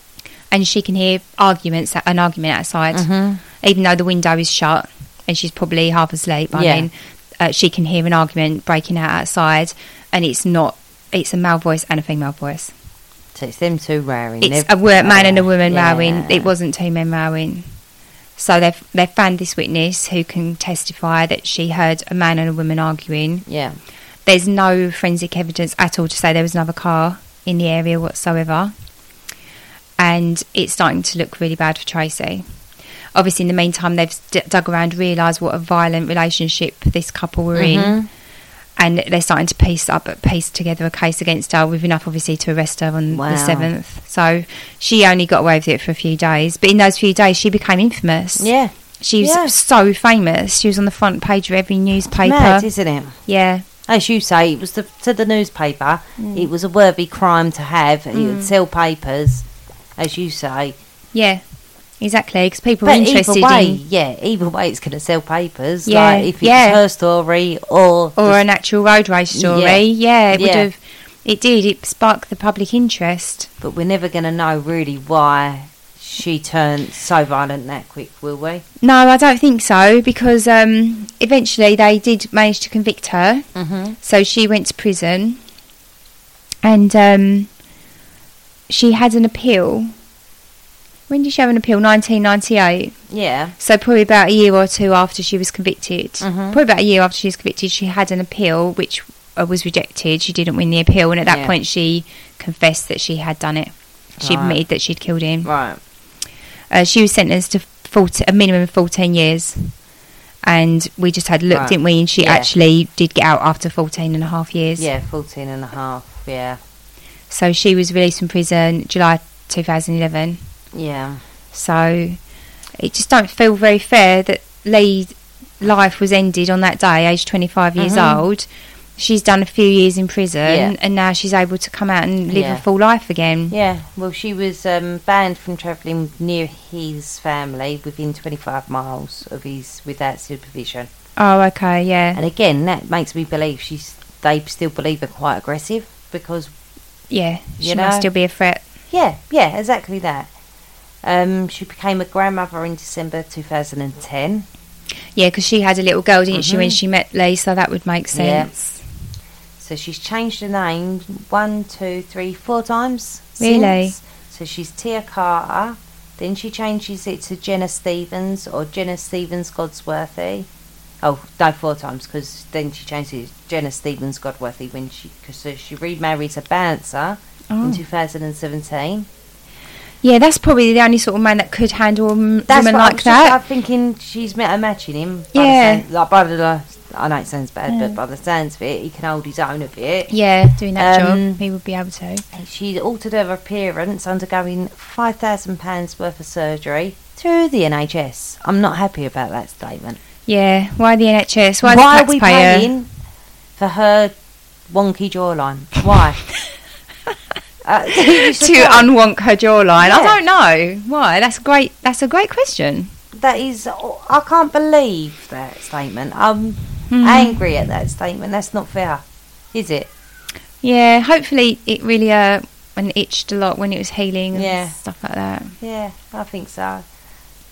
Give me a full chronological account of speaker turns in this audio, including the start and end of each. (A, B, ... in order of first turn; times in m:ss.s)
0:00.5-0:03.1 A
0:02.9-0:03.4 B
0:03.6-0:12.7 A
0:06.5-0:06.9 B
0:13.4-0:16.5 B
0:14.4-0:17.7 A
0:18.4-0:23.4 A
0:23.5-0:23.8 B
0:24.3-0:28.7 A
0:30.0-0:32.4 A
0:33.2-0:38.0 A
0:37.6-0:38.1 B
0:38.8-0:48.5 A
0:43.1-0:43.7 B
0:48.4-0:49.5 B
0:49.0-0:52.7 A
0:52.2-0:53.2 B
0:53.3-0:53.6 A
0:53.9-0:59.4 B
0:56.2-0:56.5 A
0:58.1-0:58.5 A
1:00.0-1:00.8 B
1:01.1-1:01.4 A
1:02.0-1:03.8 A
1:02.8-1:08.4 B
1:05.9-1:06.8 A
1:08.2-1:13.5 A
1:09.3-1:10.7 B
1:13.6-1:18.6 B
1:18.8-1:23.4 A
1:23.6-1:24.0 B
1:24.0-1:25.4 A
1:26.6-1:27.5 A
1:28.7-1:29.9 A
1:31.1-1:33.0 A
1:33.1-1:33.5 B
1:33.6-1:45.5 A
1:36.2-1:36.6 B
1:41.3-1:41.5 B
1:44.2-1:44.6 B
1:45.4-1:45.8 B
1:46.7-1:49.7 A
1:50.4-1:54.9 A
1:51.5-1:52.5 B
1:54.8-1:56.6 B
1:57.3-2:00.4 A
2:00.7-2:01.2 B
2:01.5-2:02.2 A
2:02.8-2:13.6 A
2:07.8-2:08.3 B
2:10.4-2:10.8 B
2:12.3-2:12.6 B
2:13.5-2:20.9 B
2:21.2-2:22.2 A
2:22.1-2:26.5 B
2:27.1-2:28.6 A
2:27.6-2:28.1 B
2:28.9-2:30.3 B
2:31.0-2:34.5 B
2:35.2-2:38.8 A
2:36.3-2:36.8 B
2:38.1-2:38.5 B
2:39.6-2:50.5 B
2:43.4-2:44.0 A
2:51.0-2:59.1 B
2:57.5-2:57.8 A
3:00.0-3:03.4 A
3:02.5-3:10.1 B
3:05.3-3:05.8 A
3:07.7-3:08.0 A
3:10.1-3:12.2 A
3:10.8-3:11.4 B
3:12.3-3:20.0 B
3:20.3-3:22.7 A
3:21.6-3:22.9 B
3:23.6-3:24.2 B
3:24.7-3:26.2 B
3:27.6-3:28.9 B
3:28.0-3:32.9 A
3:29.8-3:30.2 B
3:33.1-3:39.9 B
3:36.9-3:37.4 A
3:40.6-3:45.6 A
3:44.3-3:44.8 B
3:45.6-3:46.8 B